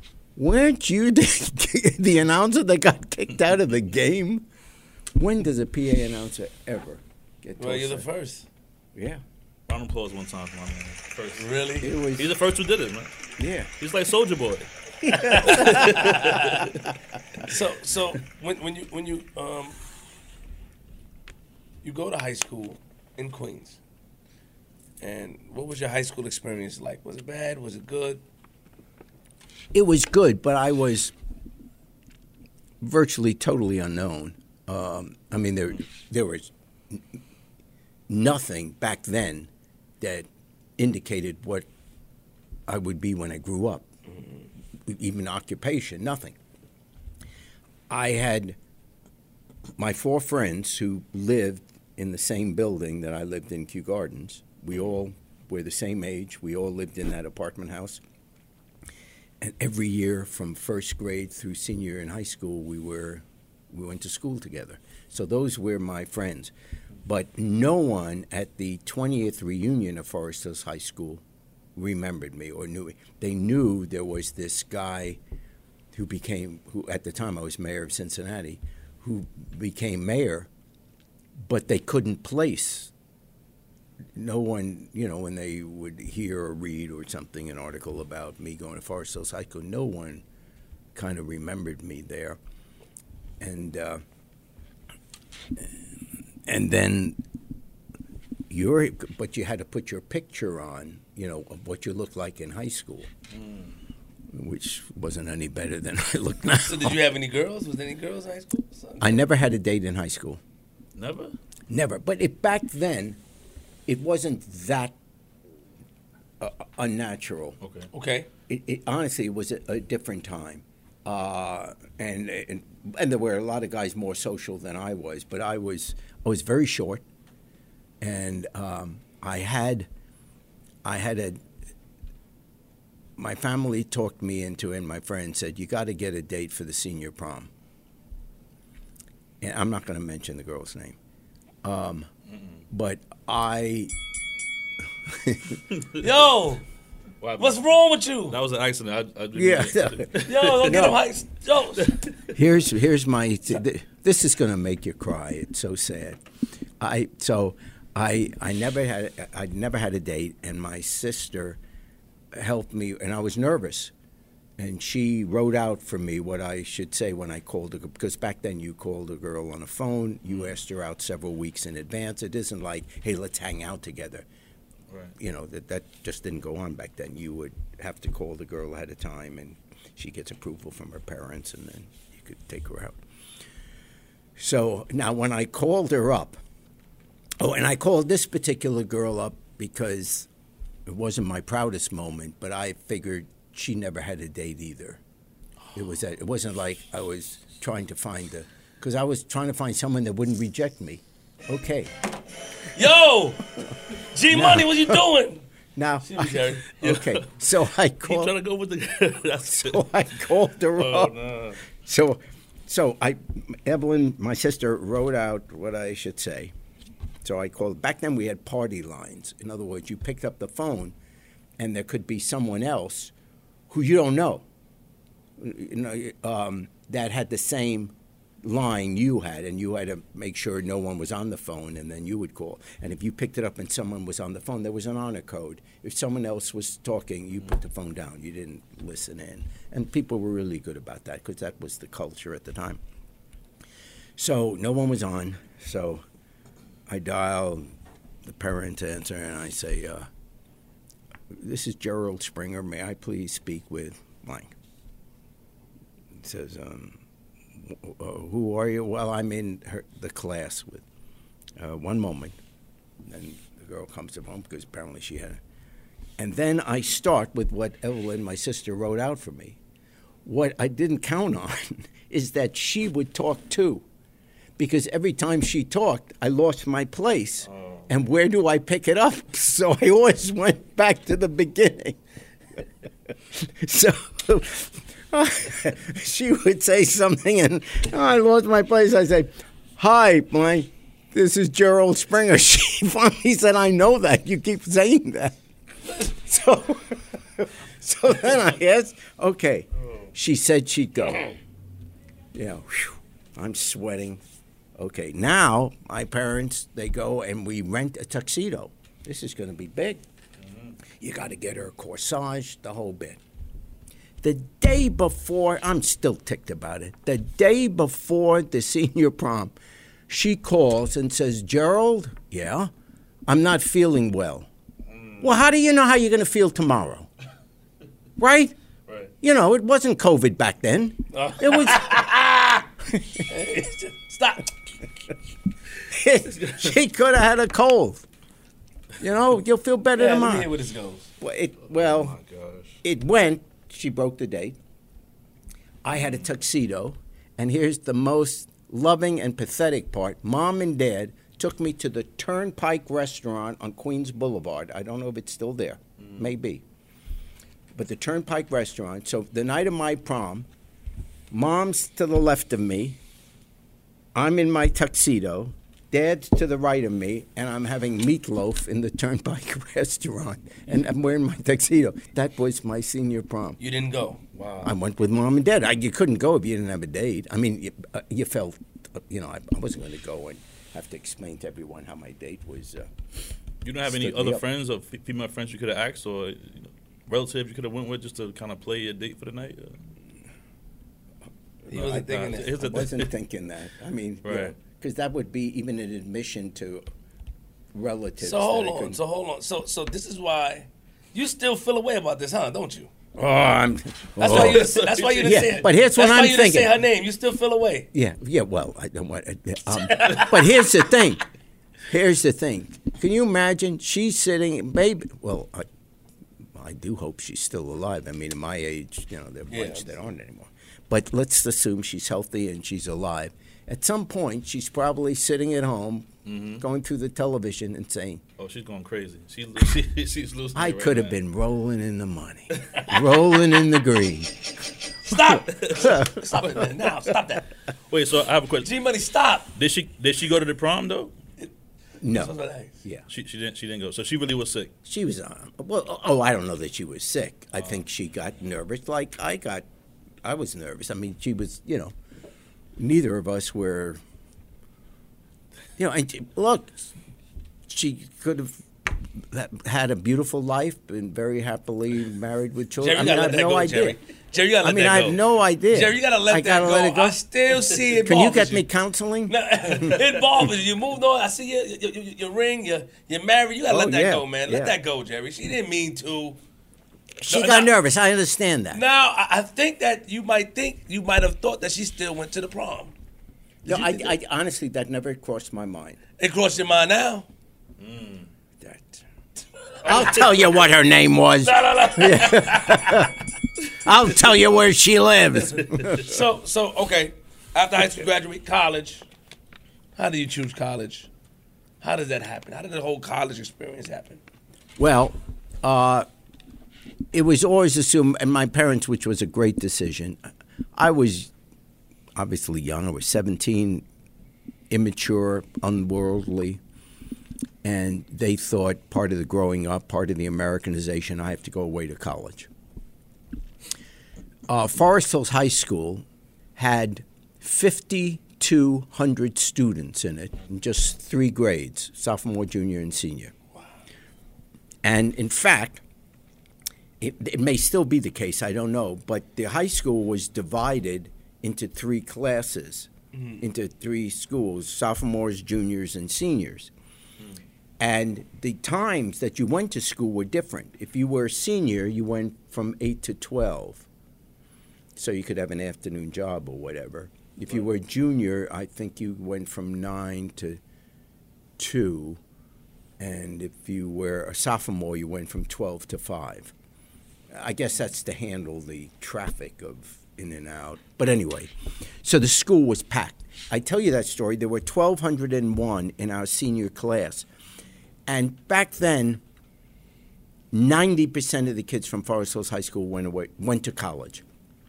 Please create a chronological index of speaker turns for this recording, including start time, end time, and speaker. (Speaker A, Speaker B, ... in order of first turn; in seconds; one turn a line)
Speaker A: 0.3-4.5
Speaker A: 5.1-8.1
Speaker B: 7.6-8.5
Speaker A: 8.9-9.2
Speaker C: 9.7-11.5
Speaker B: 11.4-11.9
Speaker A: 11.8-12.3
Speaker C: 12.2-13.1
Speaker A: 13.4-13.7
Speaker C: 13.8-16.8
Speaker A: 15.0-15.9
Speaker B: 15.4-16.5
Speaker B: 17.4-19.8
Speaker B: 21.8-23.8
Speaker B: 25.0-28.2
Speaker A: 29.7-31.1
Speaker A: 32.8-37.1
Speaker A: 38.1-40.3
Speaker A: 40.8-41.7
Speaker A: 42.7-43.9
Speaker A: 44.9-46.4
Speaker A: 47.9-48.6
Speaker A: 49.8-58.0
Speaker A: 59.4-66.5
Speaker A: 67.0-71.2
Speaker A: 71.7-75.2
Speaker A: 75.9-80.5
Speaker A: 81.5-82.9
Speaker A: 84.2-90.2
Speaker A: 90.9-92.4
Speaker A: 93.4-94.0
Speaker A: 96.5-97.2
Speaker A: 98.5-103.1
Speaker C: 103.3-103.7
Speaker A: 104.3-107.0
Speaker B: 106.6-109.2
Speaker A: 109.0-110.4
Speaker C: 111.0-111.3
Speaker A: 111.7-113.2
Speaker A: 113.9-114.9
Speaker A: 116.4-117.6
Speaker C: 117.6-117.9
Speaker B: 117.9-118.3
Speaker A: 118.5-127.0
Speaker A: 128.0-129.9
Speaker A: 130.8-131.4
Speaker A: 133.2-137.5
Speaker A: 139.4-141.0
Speaker A: 141.6-142.1
Speaker C: 142.3-142.6
Speaker A: 142.7-143.9
Speaker A: 145.1-145.6
Speaker B: 146.0-146.6
Speaker C: 147.2-147.6
Speaker B: 147.4-148.3
Speaker C: 148.3-150.9
Speaker A: 149.3-151.0
Speaker B: 150.2-151.9
Speaker C: 151.8-152.3
Speaker A: 152.3-156.2
Speaker A: 156.8-161.6
Speaker A: 162.3-163.9
Speaker A: 164.6-174.2
Speaker C: 174.9-175.1
Speaker A: 175.2-183.0
Speaker A: 184.3-186.4
Speaker A: 187.4-190.3
Speaker A: 190.8-195.0
Speaker A: 195.7-201.9
Speaker B: 202.7-203.4
Speaker B: 204.1-205.4
Speaker A: 204.3-205.0
Speaker A: 205.8-208.3
Speaker B: 206.0-206.7
Speaker C: 206.8-207.3
Speaker C: 208.0-209.9
Speaker A: 209.5-211.1
Speaker C: 210.7-211.6
Speaker A: 211.7-216.5
Speaker A: 217.2-220.9
Speaker A: 221.6-223.1
Speaker A: 223.7-224.4
Speaker A: 225.4-242.8
Speaker A: 244.2-246.0
Speaker A: 246.9-247.7
Speaker A: 248.2-250.1
Speaker A: 251.3-254.5
Speaker A: 256.1-257.0
Speaker A: 257.5-260.8
Speaker A: 261.6-262.4
Speaker A: 263.0-265.4
Speaker A: 266.2-269.6
Speaker A: 270.2-273.8
Speaker A: 274.6-282.0
Speaker C: 277.5-277.9
Speaker A: 283.3-295.4
Speaker A: 295.9-301.3
Speaker A: 302.3-304.2
Speaker A: 304.8-310.0
Speaker A: 311.0-313.2
Speaker A: 314.2-319.5
Speaker A: 320.1-322.7
Speaker A: 323.3-324.5
Speaker C: 324.9-325.3
Speaker A: 325.2-327.1
Speaker A: 328.2-328.5
Speaker A: 329.2-332.1
Speaker B: 331.1-332.6
Speaker A: 332.8-333.3
Speaker B: 333.3-334.5
Speaker A: 335.9-338.0
Speaker A: 339.0-340.5
Speaker B: 339.9-341.1
Speaker A: 341.2-342.1
Speaker C: 341.7-342.8
Speaker A: 342.8-344.6
Speaker A: 345.8-356.6
Speaker C: 356.0-356.3
Speaker A: 357.7-360.5
Speaker A: 361.3-363.0
Speaker A: 364.1-373.6
Speaker B: 373.6-374.2
Speaker C: 374.3-374.7
Speaker A: 374.6-382.9
Speaker C: 383.6-389.8
Speaker A: 383.8-384.4
Speaker B: 391.7-392.5
Speaker A: 391.7-396.8
Speaker C: 391.7-393.1
Speaker C: 394.2-394.5
Speaker A: 397.7-399.0
Speaker B: 398.2-403.1
Speaker A: 403.1-406.7
Speaker B: 404.2-407.9
Speaker C: 404.2-405.5
Speaker A: 407.9-411.2
Speaker B: 409.7-410.8
Speaker A: 411.9-415.6
Speaker A: 416.5-428.2
Speaker B: 419.5-419.9
Speaker C: 426.2-426.6
Speaker C: 428.4-431.2
Speaker A: 430.5-434.5
Speaker B: 434.9-437.5
Speaker A: 435.1-436.7
Speaker C: 435.5-435.9
Speaker C: 437.9-438.7
Speaker B: 438.6-439.5
Speaker C: 439.4-441.1
Speaker A: 442.0-443.1
Speaker B: 442.0-442.8
Speaker C: 443.1-444.7
Speaker A: 444.8-449.6
Speaker A: 450.2-451.9
Speaker A: 452.8-454.0
Speaker A: 455.8-456.9
Speaker A: 457.7-464.0
Speaker B: 462.8-468.6
Speaker A: 464.6-467.2
Speaker A: 467.9-470.2
Speaker B: 469.3-476.4
Speaker A: 473.7-474.8
Speaker A: 477.2-478.8
Speaker B: 477.3-477.7
Speaker B: 478.7-482.9
Speaker A: 483.6-486.0
Speaker C: 483.7-484.1
Speaker B: 486.2-487.3
Speaker C: 487.8-488.3
Speaker A: 488.6-489.0
Speaker B: 489.7-490.3
Speaker A: 489.8-496.1
Speaker B: 491.4-493.1
Speaker B: 495.9-499.1
Speaker B: 499.9-501.1
Speaker B: 501.8-504.2
Speaker A: 504.8-506.1
Speaker A: 507.1-510.2
Speaker A: 510.7-511.3
Speaker A: 512.1-513.8
Speaker A: 514.7-516.6
Speaker A: 517.6-522.5
Speaker A: 524.5-526.0
Speaker A: 526.6-533.3
Speaker A: 534.8-535.8
Speaker A: 537.0-546.7
Speaker B: 543.1-543.4
Speaker A: 547.8-553.9
Speaker A: 555.0-560.6
Speaker A: 561.6-562.2
Speaker A: 563.0-566.5
Speaker A: 567.3-571.5
Speaker A: 572.0-577.3
Speaker A: 578.1-579.2
Speaker A: 580.5-584.2